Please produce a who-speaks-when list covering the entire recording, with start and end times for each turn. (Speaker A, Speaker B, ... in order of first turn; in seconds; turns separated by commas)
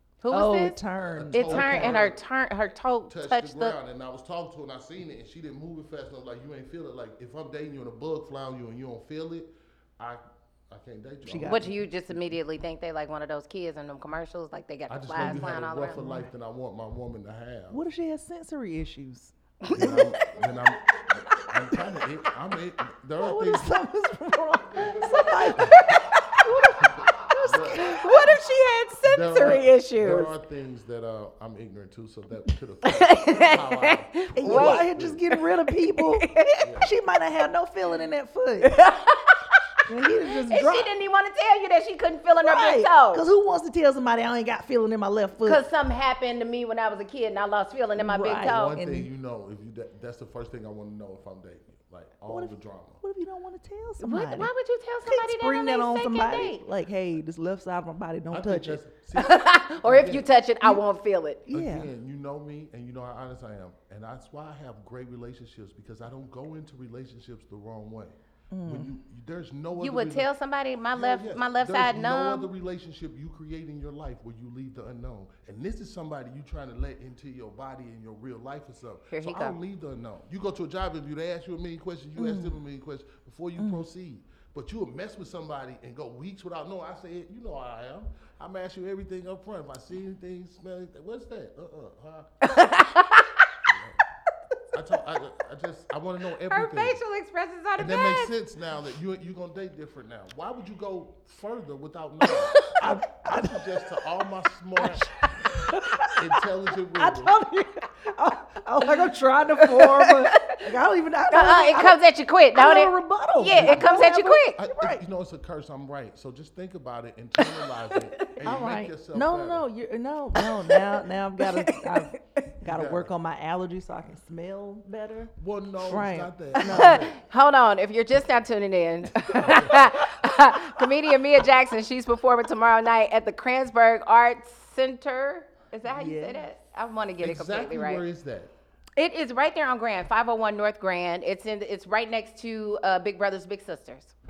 Speaker A: 0.2-3.8, Speaker B: 0.3-2.1, Speaker C: 1.1-2.2, Speaker C: 3.1-12.2, Speaker B: 11.2-11.7, Speaker A: 11.4-16.1, Speaker C: 14.9-17.8, Speaker B: 15.2-16.3, Speaker B: 17.7-20.4, Speaker A: 19.6-20.4, Speaker C: 19.7-23.8, Speaker B: 21.7-22.1, Speaker B: 23.1-28.6, Speaker C: 24.8-25.8, Speaker A: 25.6-26.4, Speaker C: 26.8-28.0, Speaker A: 27.7-30.3, Speaker C: 29.0-35.3, Speaker A: 32.9-35.4, Speaker B: 34.4-38.8, Speaker A: 35.9-36.5, Speaker C: 36.6-36.9, Speaker A: 38.6-39.8, Speaker B: 39.9-40.9, Speaker A: 40.4-43.2, Speaker B: 42.4-45.6, Speaker A: 45.4-48.8, Speaker B: 48.0-49.1, Speaker C: 48.4-53.0, Speaker B: 52.3-54.5, Speaker A: 54.0-56.6, Speaker B: 55.0-58.8, Speaker C: 58.3-60.3, Speaker A: 59.1-61.4, Speaker B: 61.5-61.9, Speaker C: 61.5-70.3, Speaker B: 68.5-68.9, Speaker A: 69.8-72.5, Speaker C: 71.0-92.3, Speaker A: 79.1-79.6, Speaker B: 82.2-82.6, Speaker B: 83.6-83.8, Speaker A: 92.4-93.5, Speaker C: 93.7-94.0, Speaker C: 94.7-97.0, Speaker A: 96.5-98.3, Speaker C: 97.8-105.2, Speaker A: 102.3-102.8, Speaker B: 102.5-104.1, Speaker B: 104.8-112.0, Speaker C: 106.0-107.4, Speaker A: 109.6-110.7, Speaker A: 111.3-114.6, Speaker B: 112.5-115.0, Speaker C: 113.5-114.0, Speaker C: 114.6-119.7, Speaker A: 117.4-118.3, Speaker B: 118.4-127.1, Speaker A: 120.4-122.0, Speaker C: 122.7-123.1, Speaker C: 125.4-127.2, Speaker A: 126.6-138.0, Speaker C: 129.3-130.0, Speaker B: 129.5-129.9, Speaker B: 135.9-136.4, Speaker C: 137.2-138.5, Speaker A: 139.0-144.1